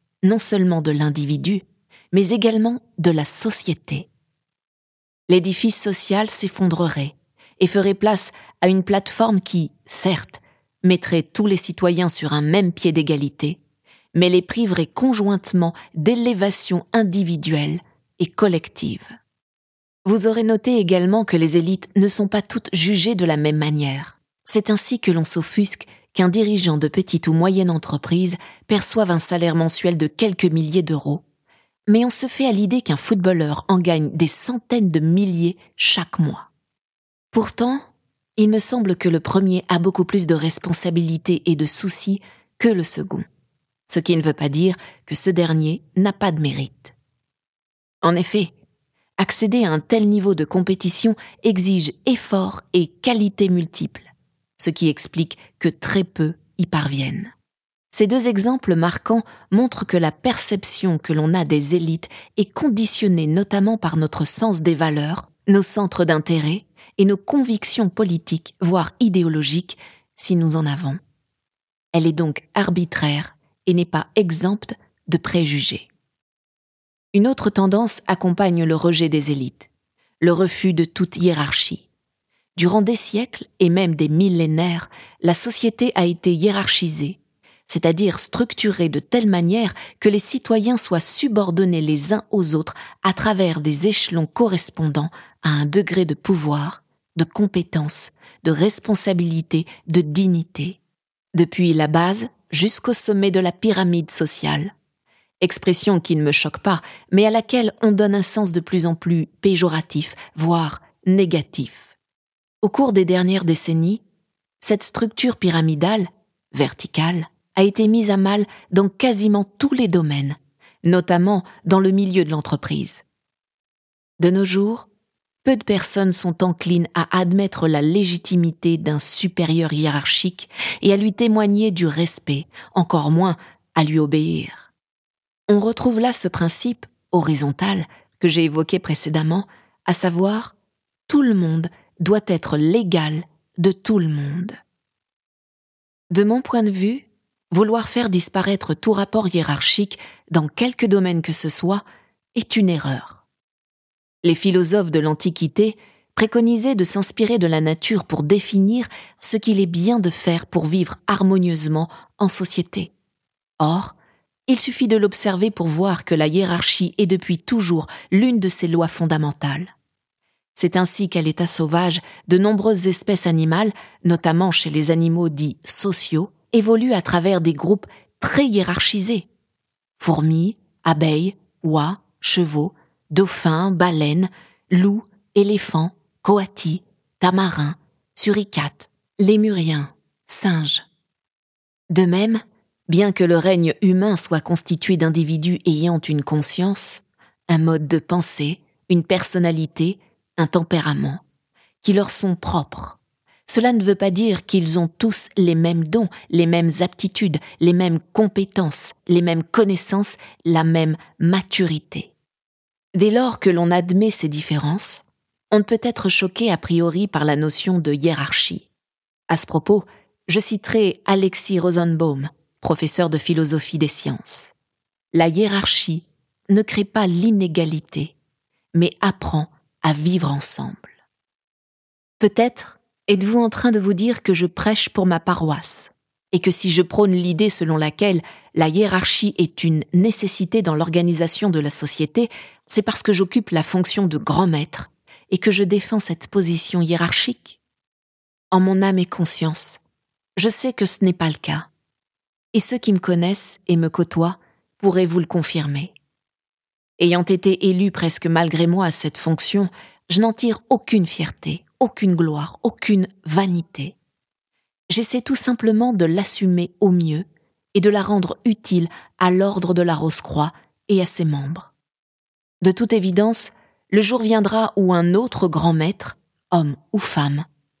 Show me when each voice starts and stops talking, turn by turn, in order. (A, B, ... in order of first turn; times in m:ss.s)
0:00.2-0:04.1 A
0:05.3-0:13.6 A
0:14.1-0:19.1 A
0:20.0-0:31.2 A
0:31.9-0:36.5 A
0:37.3-0:43.2 A
0:43.9-0:46.9 A
0:48.0-0:48.5 A
0:49.2-0:57.3 A
0:57.9-1:11.0 A
1:11.9-1:15.9 A
1:17.1-1:19.7 A
1:20.2-1:21.9 A
1:22.5-1:40.8 A
1:41.3-1:44.7 A
1:45.4-1:51.9 A
1:52.6-1:54.0 A
1:54.6-2:03.0 A
2:04.2-2:04.9 A
2:05.4-2:14.7 A
2:15.5-2:20.5 A
2:21.1-2:24.6 A
2:26.1-2:31.8 A
2:32.3-2:33.2 A
2:34.2-2:42.9 A
2:43.6-2:43.9 A
2:44.5-2:49.7 A
2:50.5-2:59.3 A
3:00.0-3:10.8 A
3:11.9-3:21.2 A
3:21.8-3:32.1 A
3:32.9-3:38.7 A
3:39.3-3:44.5 A
3:45.1-3:48.1 A
3:48.7-3:50.9 A
3:52.2-4:07.6 A
4:08.5-4:09.8 A
4:10.4-4:11.7 A
4:12.5-4:15.9 A
4:17.0-4:24.0 A
4:24.9-4:31.7 A
4:32.6-4:37.4 A